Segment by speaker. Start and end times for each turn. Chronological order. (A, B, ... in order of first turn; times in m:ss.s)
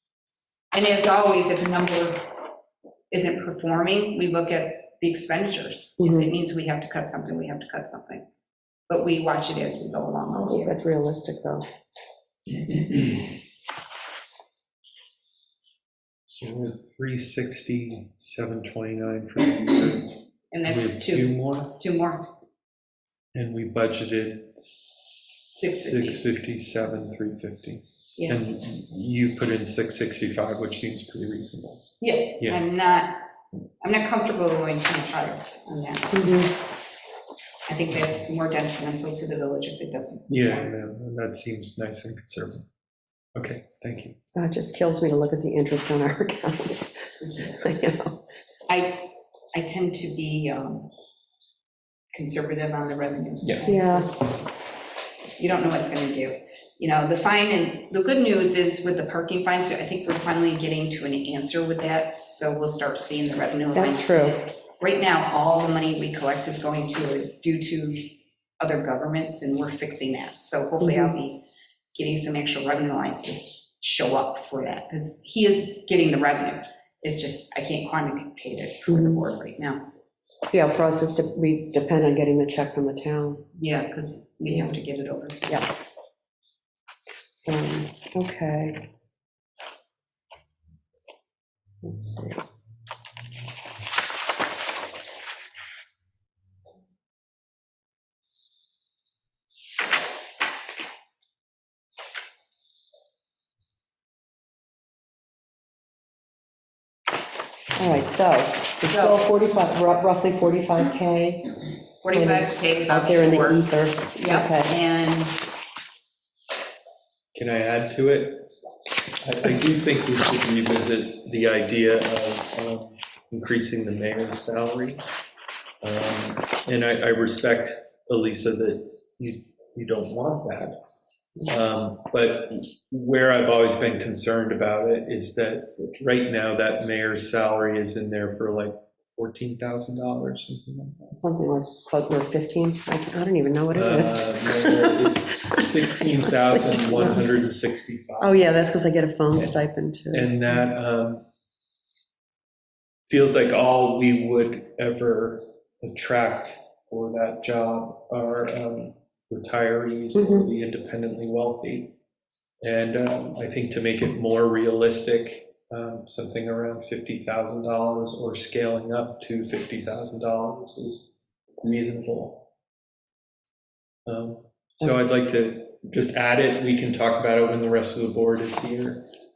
0:00.7-0:02.5 A
0:03.1-0:08.2 A
0:06.0-0:06.3 B
0:08.9-0:10.8 A
0:10.3-0:11.7 B
0:16.4-0:21.8 C
0:20.5-0:22.3 A
0:23.4-0:32.6 C
0:25.6-0:26.3 A
0:28.2-0:28.4 A
0:32.0-0:33.2 A
0:33.8-0:36.5 A
0:36.1-0:36.5 B
0:37.7-0:40.7 A
0:40.3-0:42.6 C
0:43.4-0:44.2 C
0:44.4-0:48.2 B
0:47.2-0:47.6 A
0:48.7-0:50.9 A
0:52.1-0:54.5 A
0:53.6-0:54.1 B
0:55.4-1:19.9 A
1:03.7-1:04.4 B
1:10.8-1:11.2 B
1:18.9-1:19.2 B
1:20.5-1:23.4 B
1:23.6-1:25.7 A
1:24.5-1:24.8 B
1:27.5-1:28.9 B
1:31.8-1:32.4 B
1:47.8-1:51.5 B
1:48.8-1:49.2 A
1:52.0-1:55.4 A
1:52.1-1:54.7 B
1:57.4-1:58.5 C
1:59.2-2:05.0 C
2:05.8-2:10.8 C
2:11.5-2:21.2 C
2:21.2-2:25.1 B
2:23.7-2:28.6 C
2:26.1-2:27.3 B
2:28.2-2:30.4 B
2:30.1-2:31.2 C
2:33.1-2:41.9 C
2:40.2-2:40.5 B
2:42.6-2:52.4 C
2:54.1-2:59.1 C